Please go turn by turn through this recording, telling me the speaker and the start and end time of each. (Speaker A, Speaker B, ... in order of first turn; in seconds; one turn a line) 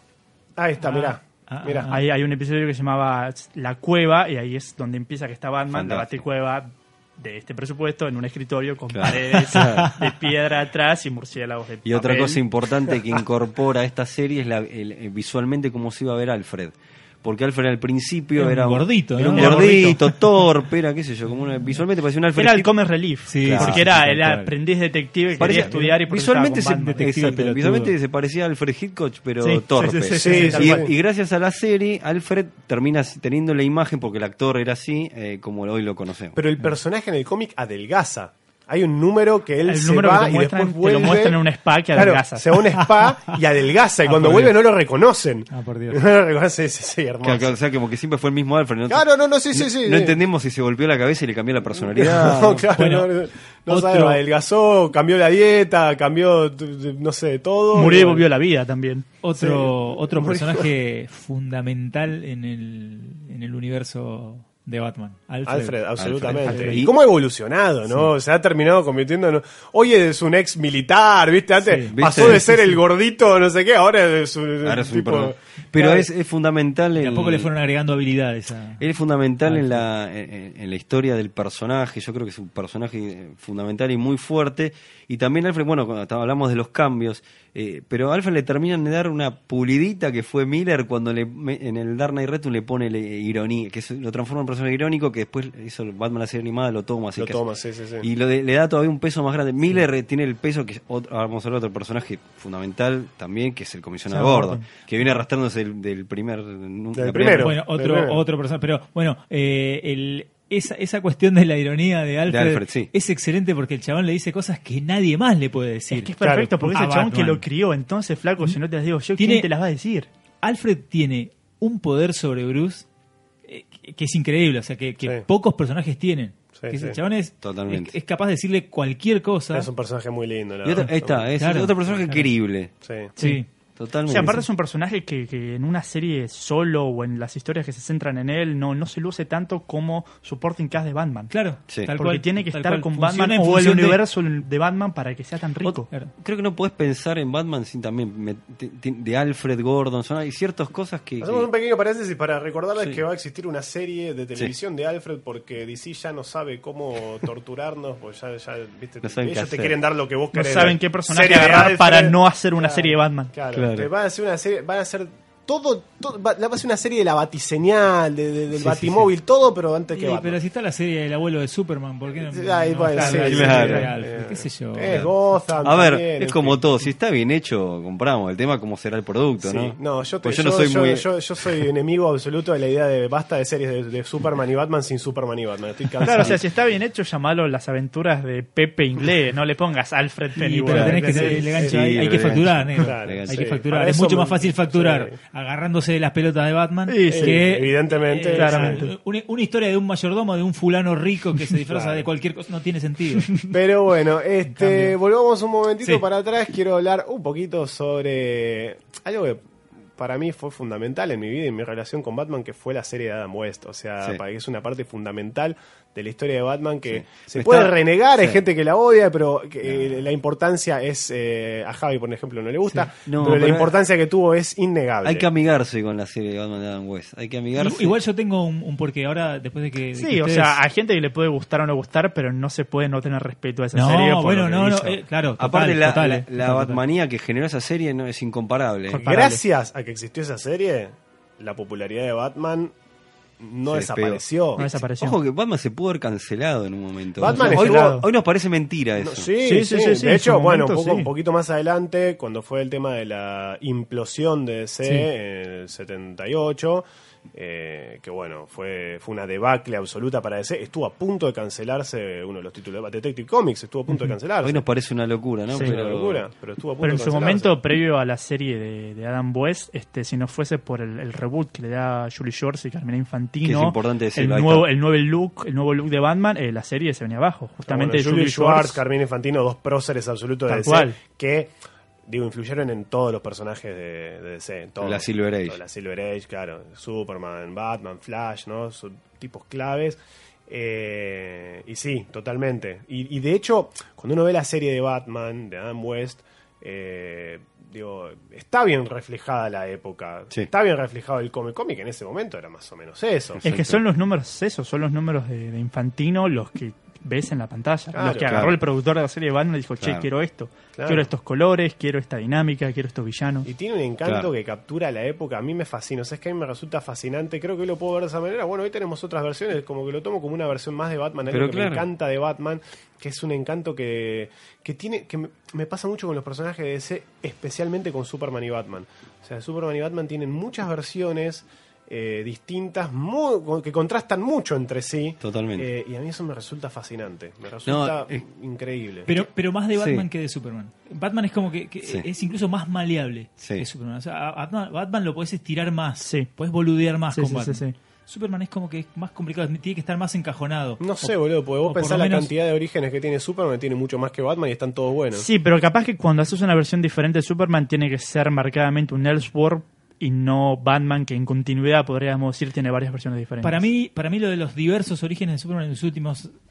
Speaker A: 0.6-1.9
Speaker B: 0.8-2.0
Speaker C: 1.9-12.4
Speaker D: 5.7-6.2
Speaker D: 8.9-9.9
Speaker B: 9.4-10.0
Speaker D: 11.8-22.7
Speaker B: 18.4-20.4
Speaker C: 19.4-19.8
Speaker C: 22.4-27.1
Speaker B: 23.3-24.5
Speaker D: 23.4-23.8
Speaker B: 25.3-26.0
Speaker D: 25.4-36.4
Speaker B: 26.6-27.9
Speaker C: 29.4-30.9
Speaker A: 30.2-30.9
Speaker A: 36.4-41.4
Speaker C: 39.6-42.7
Speaker A: 41.9-47.6
Speaker B: 44.0-44.6
Speaker B: 45.5-46.0
Speaker D: 47.2-52.7
Speaker A: 48.9-50.2
Speaker A: 51.8-58.3
Speaker B: 52.8-53.1
Speaker B: 53.7-54.2
Speaker C: 57.7-59.1
Speaker B: 59.2-65.8
Speaker A: 59.4-60.7
Speaker A: 65.5-76.1
Speaker D: 66.0-66.9
Speaker C: 66.5-66.8
Speaker B: 71.6-72.8
Speaker D: 71.9-72.5
Speaker D: 74.6-77.5
Speaker B: 77.0-78.8
Speaker D: 78.8-97.4
Speaker B: 79.5-79.8
Speaker A: 97.2-98.1
Speaker D: 98.0-107.6
Speaker C: 104.1-104.6
Speaker A: 106.9-108.2
Speaker B: 107.3-117.4
Speaker D: 112.3-112.9
Speaker C: 115.9-120.1
Speaker A: 116.2-116.5
Speaker B: 119.2-119.5
Speaker B: 120.4-122.9
Speaker B: 123.5-129.7
Speaker A: 126.6-127.0
Speaker D: 127.4-128.0
Speaker A: 129.5-131.3
Speaker D: 130.6-132.7
Speaker B: 131.4-132.3
Speaker A: 132.8-133.1
Speaker C: 133.2-133.4
Speaker B: 133.2-133.5
Speaker D: 133.8-134.4
Speaker C: 134.1-141.3
Speaker B: 141.3-144.0
Speaker C: 142.0-145.9
Speaker D: 145.6-151.5
Speaker A: 151.2-170.4
Speaker D: 159.0-159.8
Speaker C: 160.3-163.3
Speaker D: 163.5-163.9
Speaker D: 168.6-169.1
Speaker B: 169.9-175.1
Speaker A: 172.2-176.6
Speaker D: 173.0-173.9
Speaker D: 174.8-181.6
Speaker A: 179.4-186.4
Speaker C: 186.0-191.5
Speaker B: 190.4-203.4
Speaker A: 190.8-195.2
Speaker D: 191.5-193.4
Speaker C: 196.9-197.4
Speaker A: 197.1-198.8
Speaker C: 198.3-198.9
Speaker A: 201.7-202.1
Speaker A: 203.4-209.4
Speaker B: 204.5-204.9
Speaker A: 210.0-225.3
Speaker D: 216.9-218.4
Speaker D: 219.6-220.1
Speaker D: 223.0-223.8
Speaker D: 225.0-228.0
Speaker B: 227.6-230.6
Speaker C: 230.0-235.0
Speaker B: 233.7-236.8
Speaker D: 235.4-239.1
Speaker C: 238.9-239.4
Speaker A: 238.9-242.7
Speaker A: 243.4-244.7
Speaker D: 243.7-249.3
Speaker C: 244.6-245.2
Speaker A: 247.2-248.0
Speaker C: 247.2-248.1
Speaker A: 249.0-264.6
Speaker C: 249.4-251.1
Speaker D: 264.4-266.2
Speaker A: 265.6-267.6
Speaker C: 266.8-278.8
Speaker D: 273.4-274.7
Speaker A: 277.7-281.5
Speaker C: 280.5-281.0
Speaker A: 282.1-303.4
Speaker D: 284.8-285.6
Speaker D: 303.4-303.8
Speaker C: 303.4-313.5
Speaker A: 307.9-308.4
Speaker D: 308.3-308.6
Speaker D: 309.8-310.1
Speaker A: 310.8-311.1
Speaker A: 313.4-339.1
Speaker D: 314.0-314.3
Speaker D: 321.3-321.9
Speaker D: 335.2-335.7
Speaker D: 337.6-338.2
Speaker B: 339.1-352.3
Speaker D: 339.7-340.1
Speaker D: 343.4-343.7
Speaker C: 346.0-346.3
Speaker C: 347.1-347.8
Speaker A: 350.8-355.3
Speaker C: 355.1-363.7
Speaker B: 363.4-366.3